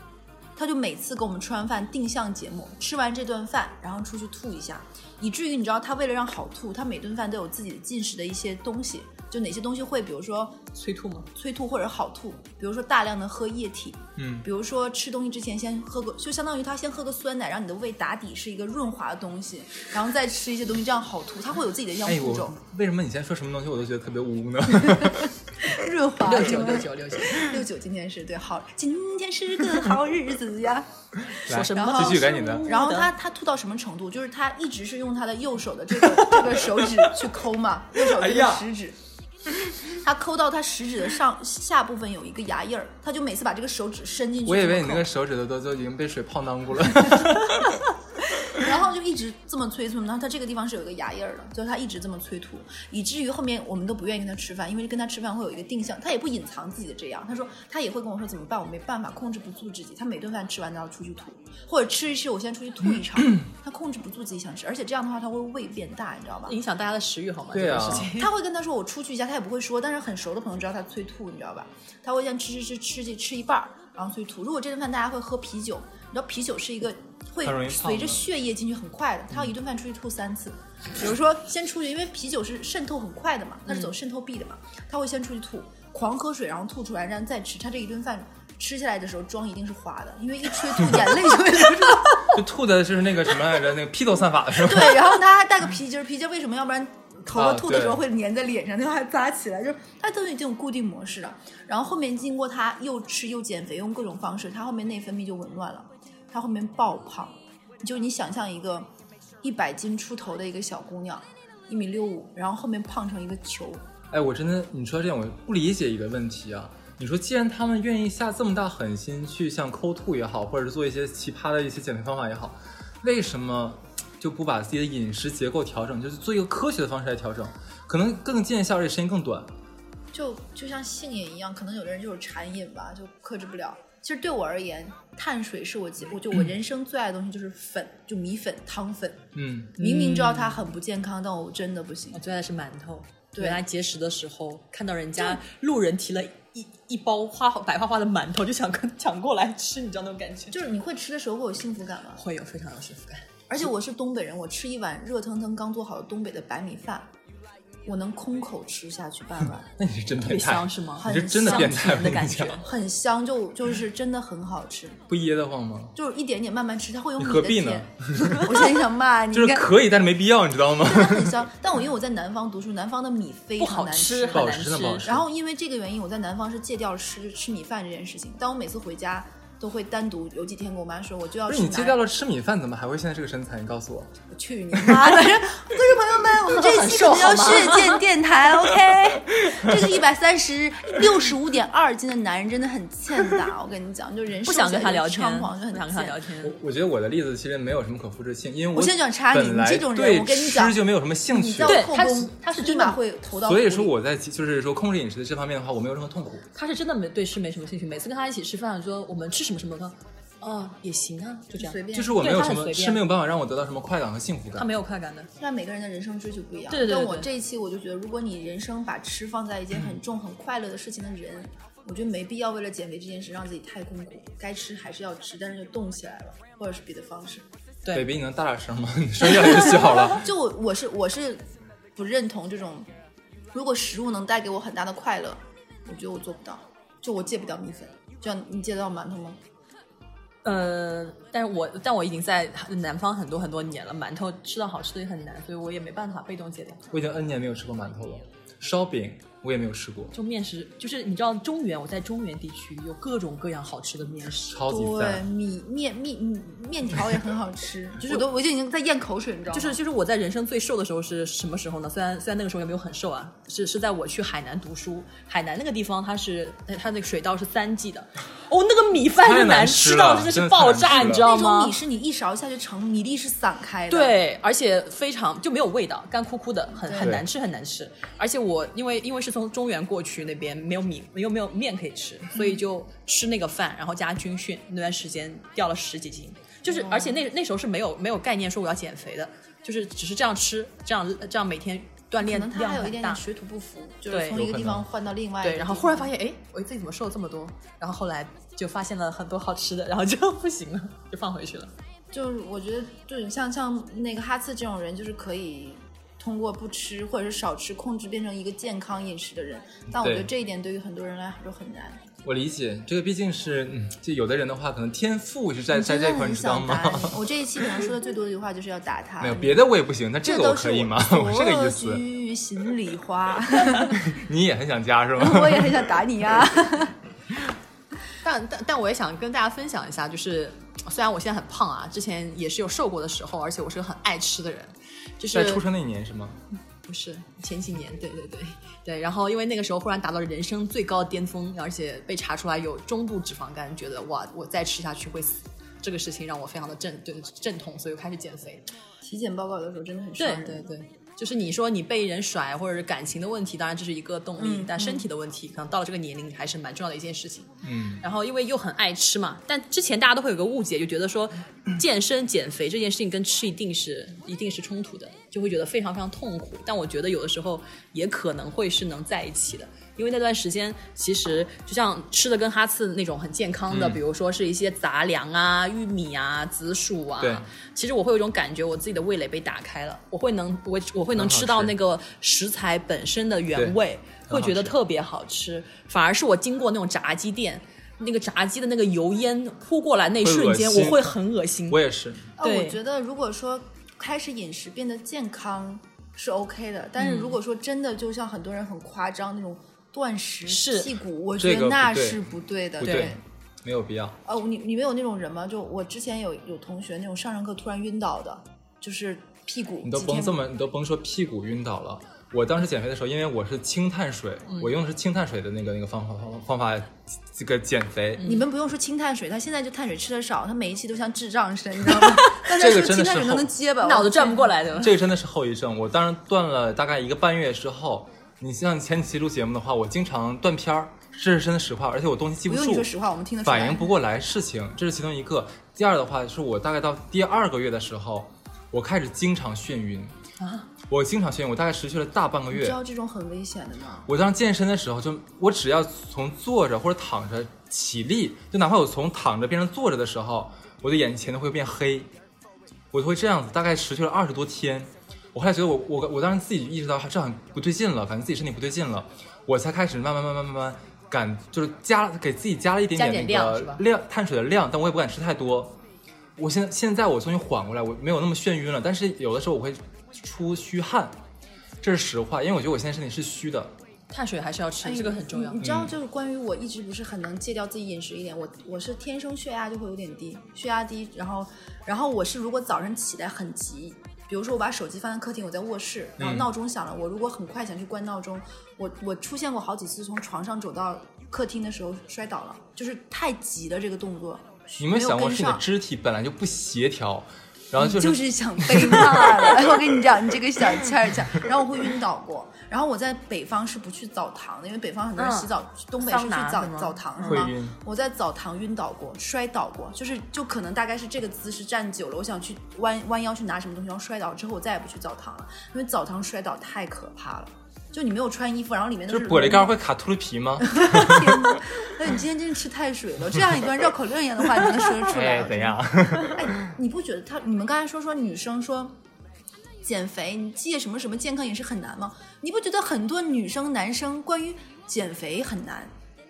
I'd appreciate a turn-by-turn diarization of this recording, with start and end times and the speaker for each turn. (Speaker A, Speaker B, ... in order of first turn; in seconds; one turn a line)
Speaker A: 0.6-10.6
Speaker B: 10.7-11.3
Speaker A: 11.3-22.6
Speaker C: 14.2-14.4
Speaker C: 22.0-25.3
Speaker A: 25.6-30.9
Speaker B: 26.2-27.5
Speaker C: 31.4-32.6
Speaker B: 31.5-33.1
Speaker A: 31.7-39.0
Speaker B: 36.1-36.9
Speaker C: 38.1-38.6
Speaker A: 39.8-45.1
Speaker C: 44.5-47.8
Speaker A: 48.4-66.6
Speaker B: 66.5-68.3
Speaker C: 67.5-68.1
Speaker A: 68.2-92.3
Speaker C: 77.4-78.3
Speaker C: 92.3-95.2
Speaker A: 94.5-108.9
Speaker C: 97.3-98.0
Speaker A: 109.4-113.8
Speaker C: 114.1-129.5
Speaker A: 130.1-142.2
Speaker C: 139.3-139.7
Speaker B: 139.8-140.6
Speaker B: 142.1-150.6
Speaker A: 143.3-143.6
Speaker A: 150.5-152.2
Speaker B: 152.2-153.3
Speaker A: 153.5-157.1
Speaker A: 157.8-159.7
Speaker C: 159.8-162.6
Speaker B: 160.1-162.6
Speaker A: 161.0-161.8
Speaker A: 162.6-165.0
Speaker C: 165.1-165.9
Speaker A: 165.9-169.7
Speaker C: 167.2-168.8
Speaker C: 169.3-171.5
Speaker A: 170.8-174.5
Speaker B: 173.6-175.0
Speaker C: 174.3-175.3
Speaker A: 175.0-182.0
Speaker C: 181.5-184.1
Speaker A: 184.3-196.2
Speaker B: 186.4-188.1
Speaker B: 194.4-196.5
Speaker C: 196.4-201.9
Speaker A: 198.7-203.9
Speaker B: 201.7-203.0
Speaker C: 203.4-206.4
Speaker B: 206.5-213.0
Speaker A: 211.5-212.3
Speaker C: 211.9-214.7
Speaker B: 214.6-215.3
Speaker A: 215.4-227.4
Speaker B: 216.7-217.3
Speaker C: 227.9-230.2
Speaker A: 230.0-231.4
Speaker A: 231.9-232.9
Speaker A: 233.5-239.4
Speaker B: 240.4-246.8
Speaker C: 246.9-250.1
Speaker B: 250.1-254.6
Speaker C: 254.5-255.2
Speaker A: 254.7-259.8
Speaker B: 258.0-258.3
Speaker B: 259.5-271.8
Speaker C: 269.2-271.2
Speaker A: 270.9-274.1
Speaker B: 273.9-293.2
Speaker A: 276.9-277.1
Speaker C: 276.9-277.3
Speaker A: 286.7-287.2
Speaker A: 292.2-296.1
Speaker B: 294.1-294.4
Speaker C: 294.3-294.9
Speaker B: 295.4-301.7
Speaker A: 302.1-312.0
Speaker C: 309.9-310.3
Speaker C: 312.2-317.3
Speaker A: 315.7-319.6
Speaker C: 319.2-322.0
Speaker A: 320.2-324.1
Speaker C: 323.9-325.9
Speaker A: 325.2-326.9
Speaker B: 328.2-335.6
Speaker C: 335.3-336.4
Speaker B: 336.9-348.6
Speaker A: 349.0-350.7
Speaker B: 350.2-391.8
Speaker A: 354.4-355.1
Speaker C: 357.6-358.0
Speaker C: 373.7-374.0
Speaker C: 377.2-377.5
Speaker C: 381.1-381.8
Speaker C: 383.5-384.8
Speaker C: 390.2-391.1
Speaker C: 391.7-392.3
Speaker B: 392.4-392.8
Speaker A: 392.4-403.2
Speaker B: 397.0-397.4
Speaker B: 400.5-400.9
Speaker C: 401.4-402.2
Speaker C: 402.8-404.2
Speaker A: 404.2-410.4
Speaker C: 409.8-418.3
Speaker A: 418.2-424.5
Speaker B: 422.0-422.5
Speaker C: 422.5-423.5
Speaker B: 423.8-425.0
Speaker C: 424.7-432.9
Speaker A: 432.5-433.9
Speaker C: 433.4-440.1
Speaker B: 440.4-440.7
Speaker C: 440.9-442.8
Speaker A: 442.5-444.1
Speaker C: 444.1-452.1
Speaker C: 452.9-465.8
Speaker B: 462.9-463.8
Speaker C: 466.4-471.1
Speaker C: 471.8-473.7
Speaker B: 474.1-475.6
Speaker A: 474.8-495.6
Speaker C: 475.6-475.9
Speaker C: 486.2-486.5
Speaker C: 494.8-499.7
Speaker A: 497.8-519.7
Speaker B: 505.2-507.4
Speaker C: 507.2-507.7
Speaker C: 519.1-521.6
Speaker A: 520.6-529.0
Speaker C: 525.0-526.5
Speaker A: 529.8-535.9